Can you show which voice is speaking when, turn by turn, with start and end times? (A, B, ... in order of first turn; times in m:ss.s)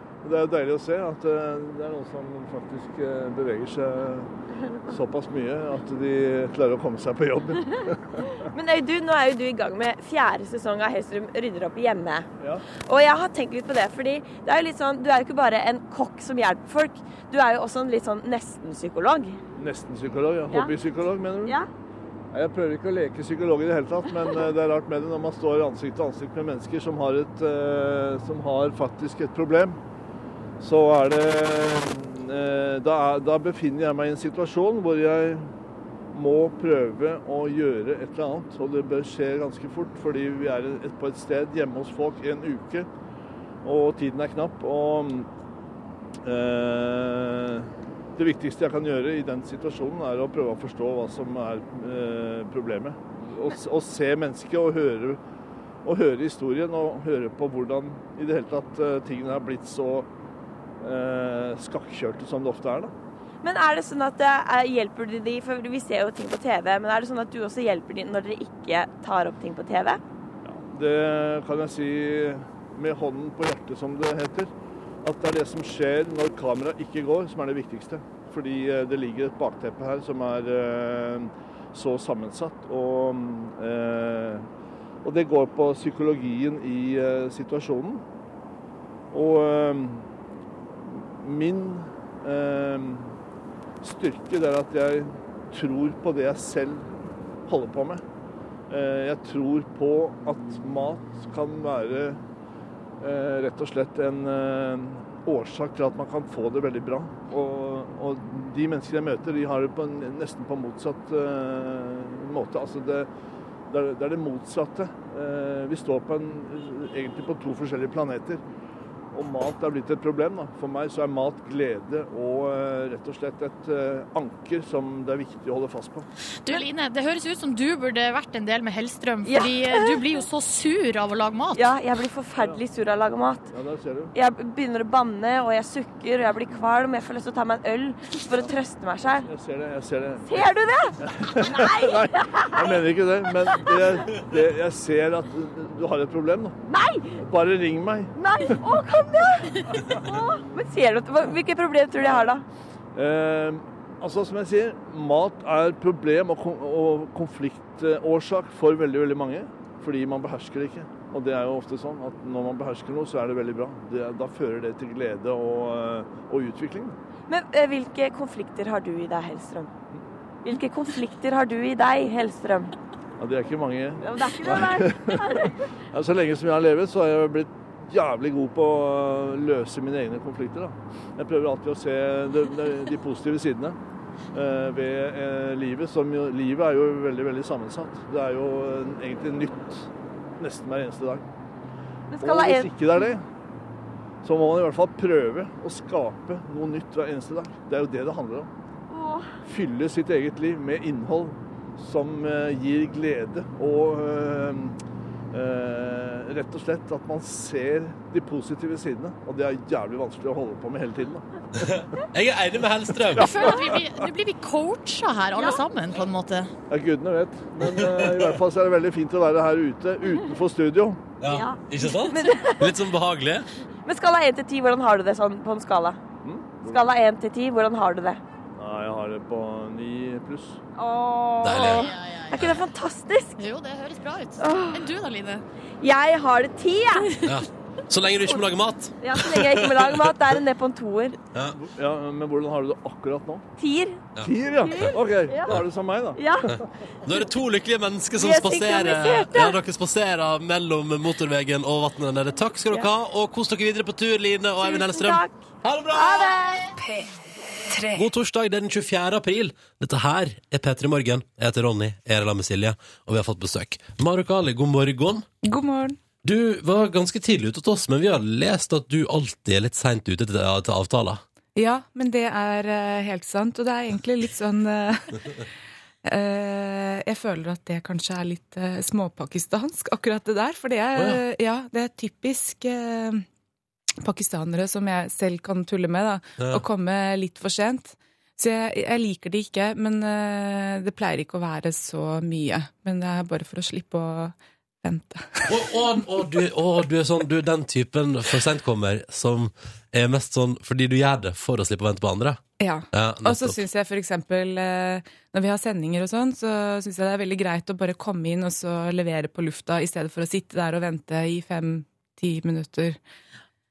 0:00.2-0:04.3 A
0:04.9-0:08.3 A
0:08.5-0:12.3 B
0:12.4-0:12.6 A
0:12.8-0:19.4 B
0:19.6-0:21.6 A
0:22.3-0:29.8 A
0:30.6-0:35.5 A
0:36.1-0:42.9 A
0:43.6-0:45.3 A
0:46.2-0:55.2 A
0:55.8-1:00.1 A
1:00.8-1:02.9 A
1:03.4-1:10.0 B
1:10.4-1:14.5 A
1:15.0-1:24.5 A
1:25.0-1:28.0 A
1:29.1-1:30.1 A
1:31.2-1:33.1 A
1:33.8-1:36.9 A
1:37.5-1:38.0 A
1:38.7-1:42.2 A
1:43.0-1:53.1 A
1:53.7-1:58.4 A
1:59.1-2:06.1 A
2:06.4-2:11.7 C
2:09.2-2:10.0 B
2:11.6-2:13.5 B
2:12.4-2:12.6 A
2:13.5-2:14.1 A
2:14.2-2:19.3 B
2:19.2-2:20.4 A
2:20.3-2:24.3 B
2:21.0-2:26.6 A
2:26.7-2:27.2 B
2:27.2-2:28.6 A
2:28.2-2:32.4 B
2:29.7-2:30.4 A
2:32.0-2:32.3 A
2:33.0-2:47.0 A
2:47.3-2:49.7 B
2:50.4-2:52.7 B
2:53.2-3:03.8 A
2:54.0-2:55.5 B
3:04.3-3:11.2 A
3:12.1-3:13.1 B
3:12.2-3:13.2 A
3:14.2-3:18.5 A
3:18.9-3:19.3 B
3:19.5-3:24.8 A
3:25.3-3:31.2 A
3:31.6-3:33.6 D
3:33.2-3:36.5 C
3:33.2-3:33.6 A
3:35.4-3:35.6 B
3:36.7-3:41.0 A
3:37.6-3:38.4 D
3:41.2-3:43.5 D
3:41.2-3:42.7 B
3:43.8-3:46.0 B
3:46.2-3:46.8 A
3:46.6-3:48.2 B
3:48.6-3:50.6 A
3:50.8-3:53.4 B
3:51.4-3:52.6 D
3:51.5-3:52.6 C
3:53.4-3:55.4 C
3:54.4-3:54.9 B
3:55.8-3:57.2 B
3:57.2-4:00.4 D
3:59.0-4:01.2 B
4:01.6-4:03.4 A
4:03.6-4:06.6 B
4:04.2-4:05.0 D
4:04.2-4:06.7 A
4:06.5-4:16.5 D
4:08.2-4:09.6 B
4:14.6-4:15.4 B
4:15.9-4:16.8 B
4:17.9-4:25.2 D
4:25.4-4:26.0 E
4:26.2-4:31.2 D
4:31.6-4:35.4 E
4:36.0-4:43.2 E
4:41.0-4:41.2 D
4:44.0-4:55.5 E
4:46.4-4:46.6 D
4:55.5-5:02.4 D
5:02.6-5:13.0 E
5:02.9-5:03.6 D